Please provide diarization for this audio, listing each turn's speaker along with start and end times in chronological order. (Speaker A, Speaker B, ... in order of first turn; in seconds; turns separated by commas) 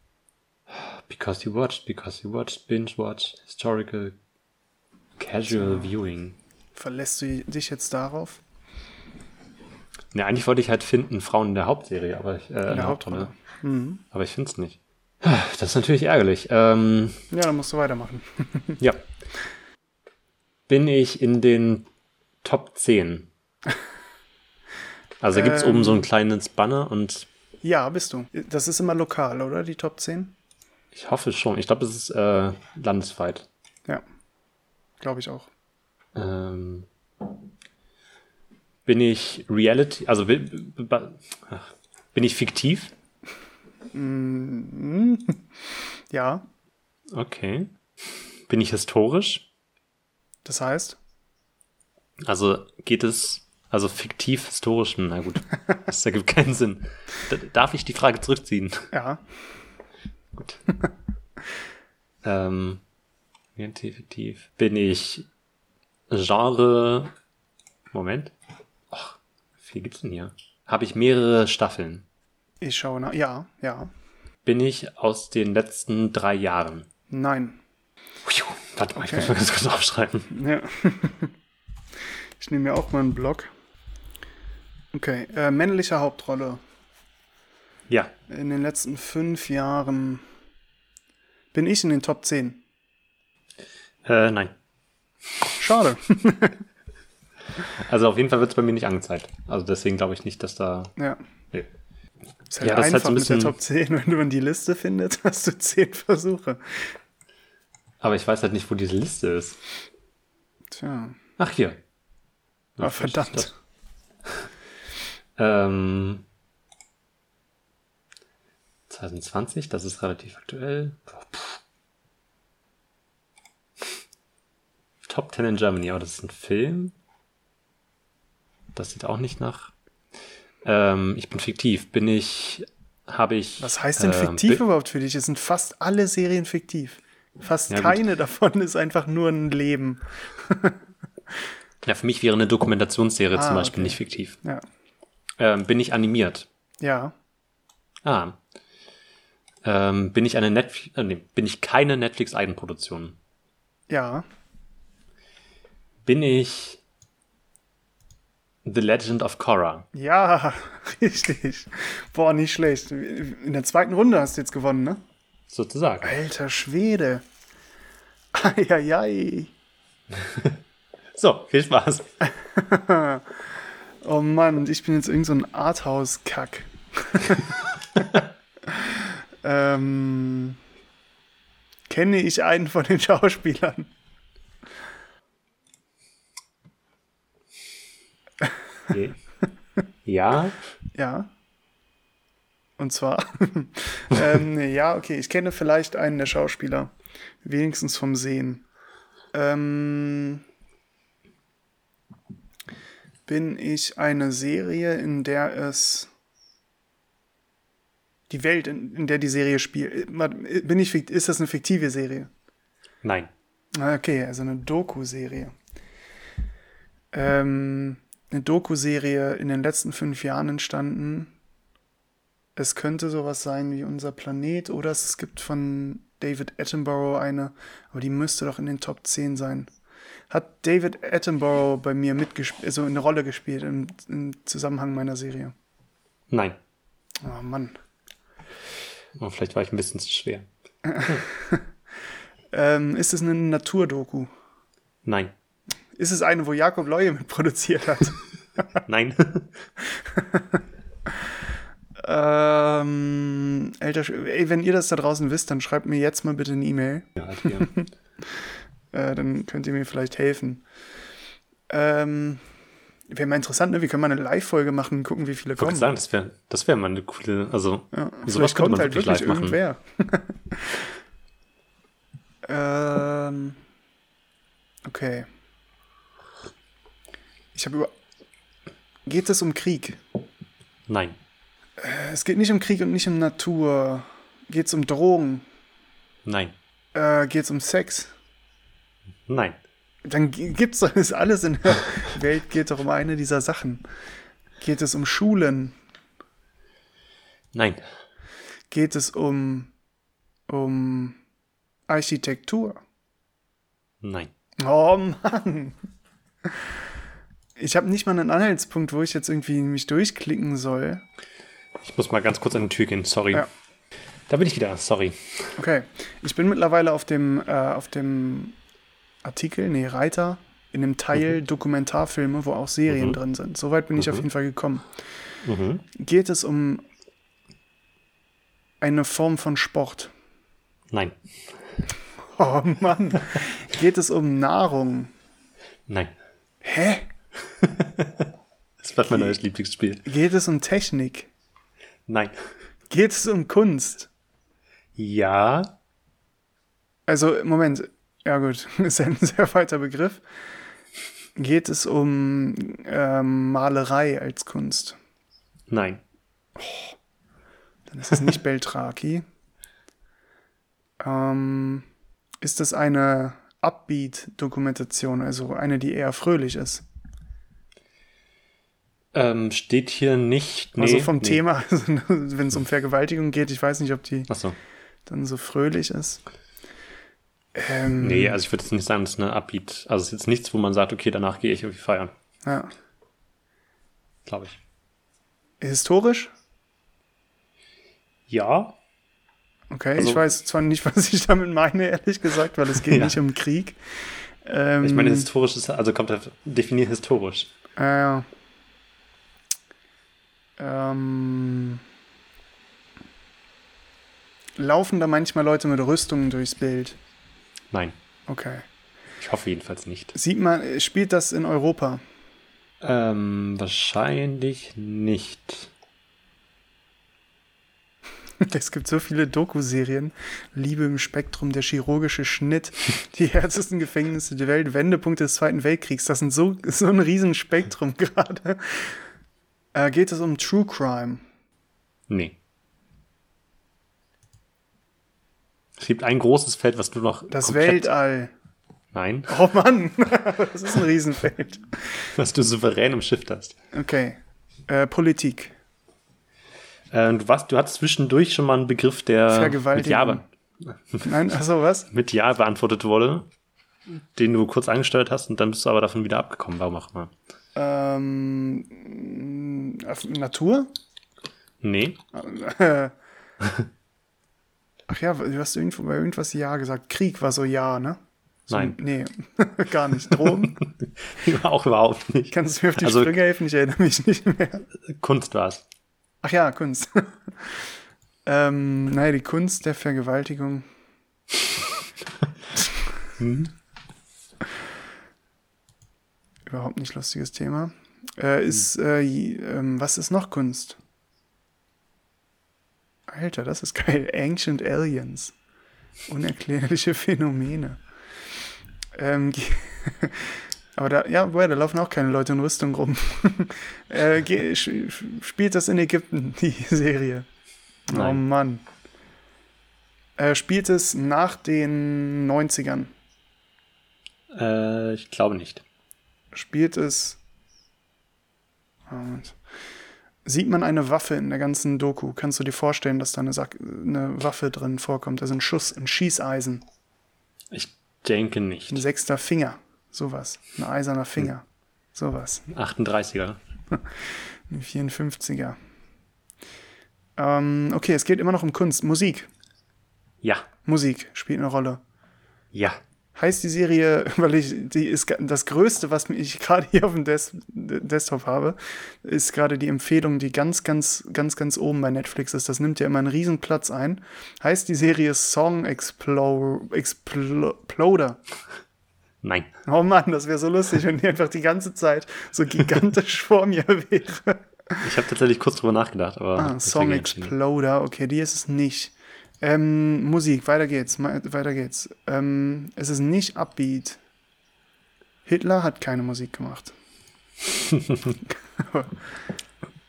Speaker A: 0.7-4.2, Speaker A: 5.2-6.3, Speaker B: 5.5-5.9, Speaker B: 6.8-8.4, Speaker A: 10.1-13.3, Speaker B: 12.7-14.0, Speaker A: 14.1-17.2, Speaker B: 17.3-18.8, Speaker A: 20.7-21.9, Speaker A: 22.4-23.3, Speaker A: 25.2-27.3, Speaker B: 25.3-26.1, Speaker B: 27.6-30.3, Speaker A: 30.9-33.5, Speaker B: 35.0-35.5, Speaker A: 36.1-36.9, Speaker A: 38.9-42.9, Speaker B: 43.9-46.4, Speaker A: 47.1-47.7, Speaker A: 48.5-49.5, Speaker B: 50.4-51.0, Speaker A: 52.2-58.9, Speaker B: 58.9-59.2, Speaker A: 60.3-60.6, Speaker A: 62.2-62.8, Speaker A: 63.5-65.2, Speaker A: 66.1-67.1, Speaker A: 67.9-68.3, Speaker A: 68.9-72.0, Speaker B: 72.6-73.9, Speaker A: 74.4-76.9, Speaker B: 77.1-77.6, Speaker A: 78.2-80.3, Speaker B: 79.0-79.3, Speaker B: 80.3-81.3, Speaker B: 82.4-83.5, Speaker B: 84.9-86.6, Speaker B: 88.3-90.2, Speaker B: 91.5-92.6, Speaker A: 94.0-94.5, Speaker B: 95.6-96.6, Speaker A: 97.6-100.9, Speaker B: 102.5-106.9, Speaker A: 102.6-103.5, Speaker A: 108.0-109.6, Speaker B: 110.7-111.2, Speaker A: 111.4-111.8, Speaker A: 112.8-113.5, Speaker B: 112.8-113.5, Speaker A: 115.4-116.2, Speaker A: 118.9-121.6, Speaker A: 125.0-126.9, Speaker A: 128.8-129.7, Speaker A: 130.6-134.6, Speaker B: 133.6-140.8, Speaker A: 137.7-138.0, Speaker A: 141.8-144.4, Speaker B: 143.3-144.6, Speaker A: 145.4-146.5, Speaker B: 146.8-147.1, Speaker A: 148.0-148.4, Speaker A: 149.6-153.2, Speaker B: 153.9-154.2, Speaker A: 156.1-156.8, Speaker A: 158.6-159.8, Speaker B: 159.9-165.0, Speaker A: 165.5-166.1, Speaker B: 166.0-167.2, Speaker B: 168.3-169.5, Speaker A: 170.2-170.6, Speaker A: 171.1-172.0, Speaker B: 172.2-173.4, Speaker B: 174.0-180.6, Speaker B: 181.9-183.9, Speaker A: 188.9-189.2, Speaker A: 190.1-190.6, Speaker B: 190.9-191.3, Speaker B: 192.8-198.6, Speaker B: 199.3-200.4, Speaker B: 203.3-206.1, Speaker B: 208.3-212.3, Speaker A: 213.0-213.3, Speaker B: 213.8-215.5, Speaker B: 217.1-221.3, Speaker B: 222.6-229.7, Speaker B: 230.3-235.5, Speaker A: 236.3-236.6, Speaker B: 237.2-237.8, Speaker A: 239.2-240.4, Speaker B: 240.9-241.6, Speaker B: 242.5-244.3, Speaker A: 245.0-245.3, Speaker B: 246.0-248.6, Speaker A: 248.9-249.5, Speaker B: 249.9-250.6, Speaker B: 252.0-257.9, Speaker A: 257.2-257.7, Speaker B: 258.9-260.6, Speaker B: 261.7-262.4, Speaker B: 263.1-265.9, Speaker A: 265.6-269.6, Speaker B: 267.9-270.9, Speaker B: 272.5-273.6, Speaker B: 274.9-275.3, Speaker B: 277.5-277.9, Speaker B: 279.1-280.0, Speaker A: 280.9-281.2, Speaker B: 281.8-285.4, Speaker A: 286.2-286.5, Speaker B: 286.9-288.1, Speaker A: 289.3-289.6, Speaker B: 290.0-293.8, Speaker B: 294.6-295.8, Speaker A: 297.5-297.8, Speaker B: 298.7-299.7, Speaker B: 300.5-301.2, Speaker B: 301.9-302.8, Speaker A: 304.0-304.3, Speaker B: 304.6-305.8, Speaker B: 307.6-311.0, Speaker A: 311.8-313.5, Speaker A: 314.3-315.2, Speaker B: 315.6-318.6, Speaker B: 319.2-324.9, Speaker A: 322.9-323.2, Speaker A: 323.9-324.3, Speaker A: 325.4-325.9, Speaker B: 325.9-326.8, Speaker B: 328.8-330.1, Speaker A: 330.9-331.2, Speaker B: 332.4-335.1, Speaker A: 335.9-336.1, Speaker B: 336.6-337.0, Speaker A: 337.6-338.3, Speaker A: 338.8-340.0, Speaker B: 339.1-339.4, Speaker B: 340.0-341.3, Speaker A: 342.1-342.3, Speaker B: 342.9-344.1, Speaker A: 344.9-345.7, Speaker B: 347.1-350.2, Speaker B: 351.4-355.0, Speaker A: 355.7-356.0, Speaker B: 356.6-356.9, Speaker B: 357.9-359.2, Speaker B: 361.0-361.9, Speaker B: 362.4-366.9, Speaker A: 369.1-371.4, Speaker B: 370.8-374.3, Speaker A: 374.3-374.6, Speaker B: 375.1-376.2, Speaker B: 377.5-378.4, Speaker A: 378.0-382.1, Speaker B: 382.4-382.7, Speaker A: 384.2-384.6, Speaker B: 385.6-386.3, Speaker A: 388.3-388.8, Speaker B: 389.7-393.8, Speaker A: 389.9-390.3, Speaker A: 392.8-393.2, Speaker B: 394.4-395.3, Speaker A: 394.8-397.5, Speaker B: 397.8-398.2, Speaker B: 400.6-401.8, Speaker B: 404.6-407.0, Speaker B: 408.3-408.6, Speaker A: 409.2-410.1, Speaker B: 410.1-412.0, Speaker A: 412.8-415.7, Speaker B: 418.4-429.0, Speaker B: 429.7-431.2, Speaker A: 432.1-432.4, Speaker A: 435.8-437.9, Speaker B: 437.3-438.3, Speaker A: 438.9-439.4, Speaker B: 439.3-442.0, Speaker A: 442.1-443.5, Speaker B: 443.7-445.5, Speaker A: 446.9-451.1, Speaker B: 449.3-450.2, Speaker B: 451.0-451.9, Speaker A: 451.9-453.3, Speaker A: 453.9-457.1, Speaker B: 457.6-460.7, Speaker A: 461.6-462.0, Speaker B: 462.1-462.9, Speaker B: 464.9-470.6, Speaker A: 468.5-468.8, Speaker A: 470.6-473.2, Speaker B: 472.3-474.6, Speaker A: 474.9-475.6, Speaker B: 476.2-477.6, Speaker B: 478.2-480.6, Speaker A: 483.2-483.5, Speaker B: 486.5-490.8, Speaker B: 493.1-495.4, Speaker B: 496.1-497.8, Speaker B: 498.9-507.2, Speaker B: 507.9-508.6, Speaker A: 507.9-508.2, Speaker B: 510.2-512.9, Speaker A: 514.3-515.6, Speaker B: 516.3-517.2, Speaker B: 518.9-519.4, Speaker B: 520.2-526.6, Speaker A: 527.5-528.8, Speaker B: 528.7-532.5, Speaker A: 532.5-533.4, Speaker B: 533.7-535.5, Speaker B: 537.2-539.3, Speaker B: 540.6-541.8, Speaker A: 542.5-542.8, Speaker B: 543.1-558.2, Speaker A: 559.2-559.5, Speaker B: 559.6-564.8, Speaker A: 564.8-567.3, Speaker B: 566.4-574.0, Speaker B: 575.2-576.8, Speaker B: 578.6-578.9